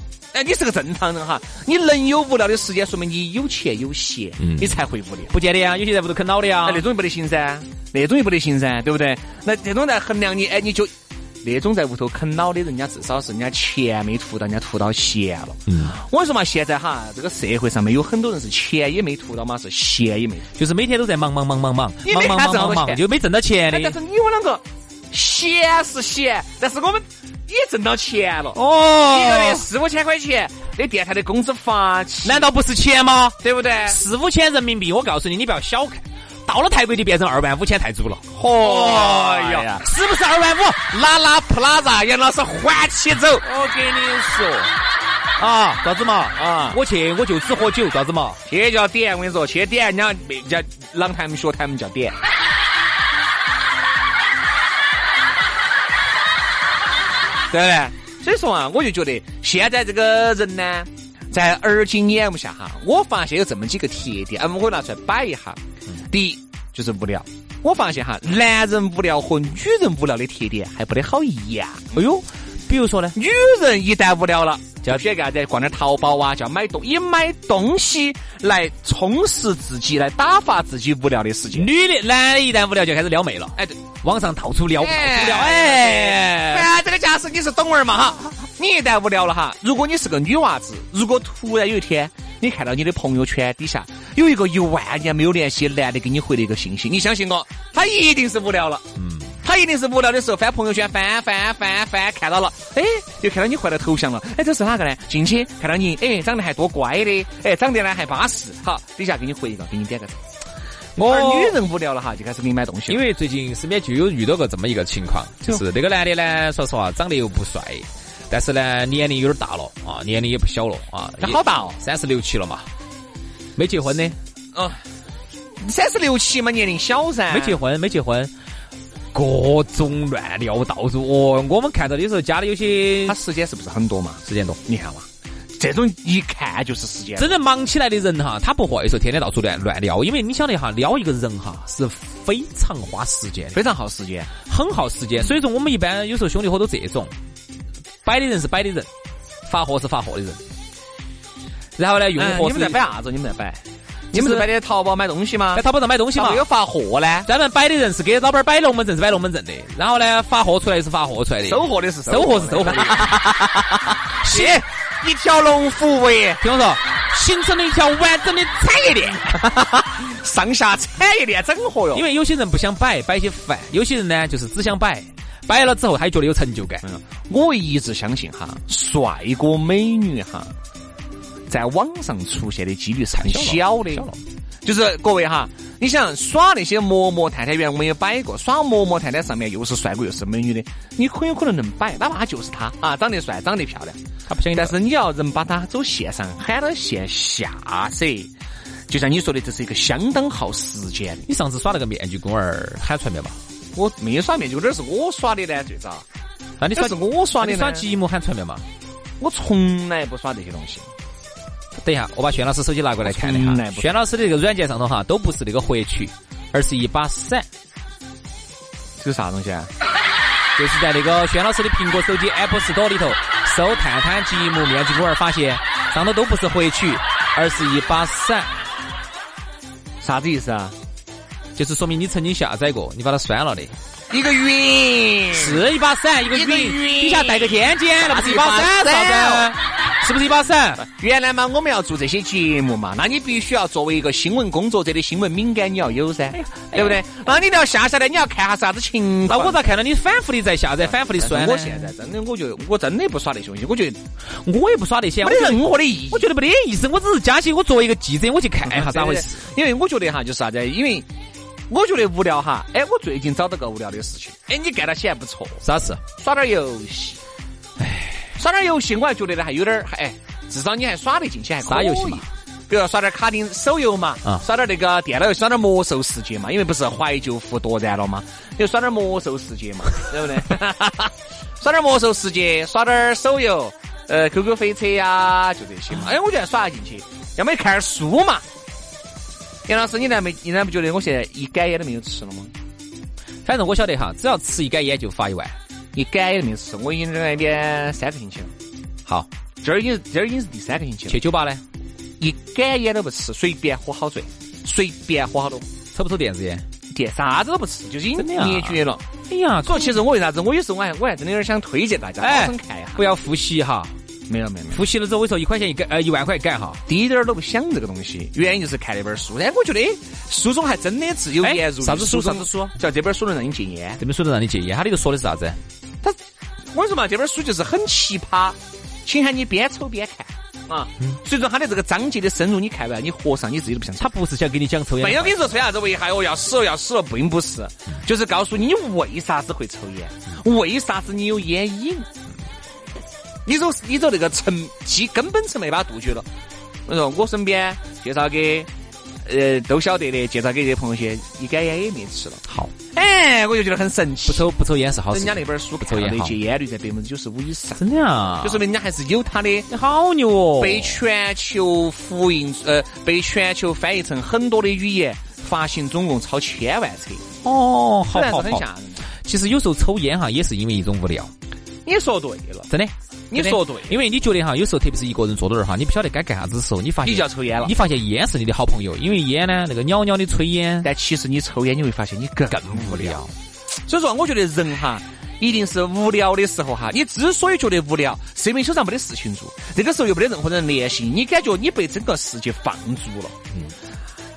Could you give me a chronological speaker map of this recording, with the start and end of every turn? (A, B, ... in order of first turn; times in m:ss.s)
0:00.3-0:05.3 A
0:04.4-0:04.7 B
0:05.3-0:06.8 B
0:06.6-0:10.9 A
0:11.4-0:20.5 A
0:15.7-0:16.0 B
0:20.6-0:24.0 B
0:22.0-0:23.0 A
0:23.7-0:32.5 A
0:28.5-0:29.6 B
0:32.2-0:40.9 B
0:33.4-0:34.0 A
0:38.4-0:39.8 A
0:40.9-0:43.4 A
0:43.4-0:44.7 B
0:45.4-0:48.4 B
0:46.4-0:46.8 A
0:48.4-0:52.2 A
0:57.5-1:11.9 A
1:11.9-1:13.2 B
1:13.1-1:21.7 A
1:21.5-1:26.7 B
1:24.8-1:38.8 A
1:39.0-1:39.3 B
1:39.4-1:50.2 A
1:51.0-1:51.6 B
1:51.0-1:53.0 A
1:52.9-2:02.7 B
2:01.2-2:01.8 A
2:03.6-2:04.2 B
2:04.5-2:04.8 A
2:05.6-2:07.6 A
2:07.3-2:08.3 B
2:09.1-2:13.2 B
2:13.0-2:17.3 A
2:14.2-2:14.6 B
2:17.2-2:23.6 B
2:23.5-2:24.3 A
2:24.4-2:27.1 B
2:28.0-2:28.9 B
2:29.4-2:30.4 B
2:31.8-2:32.8 B
2:32.2-2:37.3 A
2:34.1-2:34.5 B
2:35.5-2:36.4 B
2:37.2-2:43.3 B
2:41.4-2:46.4 A
2:44.2-2:44.6 B
2:46.4-2:49.4 B
2:49.2-2:52.0 A
2:51.9-2:56.8 B
2:56.8-3:00.5 A
3:01.5-3:04.1 A
3:03.2-3:04.2 B
3:04.6-3:14.0 A
3:14.3-3:14.8 B
3:14.5-3:18.3 A
3:18.9-3:21.3 A
3:21.2-3:23.4 B
3:23.7-3:26.0 A
3:26.6-3:28.6 B
3:26.7-3:27.9 A
3:29.2-3:30.9 A
3:31.8-3:37.5 B
3:33.0-3:33.9 A
3:39.0-3:39.7 A
3:40.6-3:48.5 B
3:50.0-3:50.7 A
3:51.6-3:53.7 B
3:54.1-3:55.6 A
3:55.3-4:00.8 B
3:56.3-3:59.5 A
4:00.8-4:09.6 A
4:06.3-4:07.0 B
4:09.3-4:11.9 B
4:10.8-4:14.0 A
4:14.4-4:19.4 B
4:15.2-4:16.2 A
4:18.6-4:21.1 A
4:21.7-4:27.2 A
4:25.6-4:26.0 B
4:27.8-4:28.3 B
4:28.4-4:48.4 A
4:31.6-4:32.2 B
4:49.7-4:52.5 A
4:53.4-4:55.5 B
4:55.9-4:58.5 A
4:59.6-5:01.2 A
5:01.1-5:01.6 B
5:02.2-5:05.7 A
5:05.9-5:06.6 B
5:06.9-5:09.0 A
5:08.2-5:10.0 B
5:09.6-5:13.0 A
5:12.2-5:13.9 B
5:14.3-5:14.8 A
5:14.7-5:16.8 B
5:16.9-5:24.0 A
5:21.4-5:22.7 B
5:24.0-5:25.6 B
5:26.7-5:34.1 A
5:34.0-5:35.6 B
5:35.0-5:42.1 A
5:43.4-5:46.3 A
5:46.9-5:48.7 A
5:49.2-5:54.5 A
5:52.4-5:52.7 B
5:54.3-5:56.4 B
5:55.1-5:57.8 A
5:57.8-5:58.6 B
5:58.4-5:59.7 A
5:59.7-6:01.0 B
6:00.6-6:07.2 A
6:07.4-6:08.7 B
6:08.1-6:09.0 A
6:09.2-6:11.3 B
6:11.8-6:12.7 A
6:12.7-6:20.9 B
6:13.3-6:14.0 A
6:17.0-6:17.7 A
6:20.8-6:23.2 A
6:22.5-6:23.3 B
6:23.8-6:33.4 A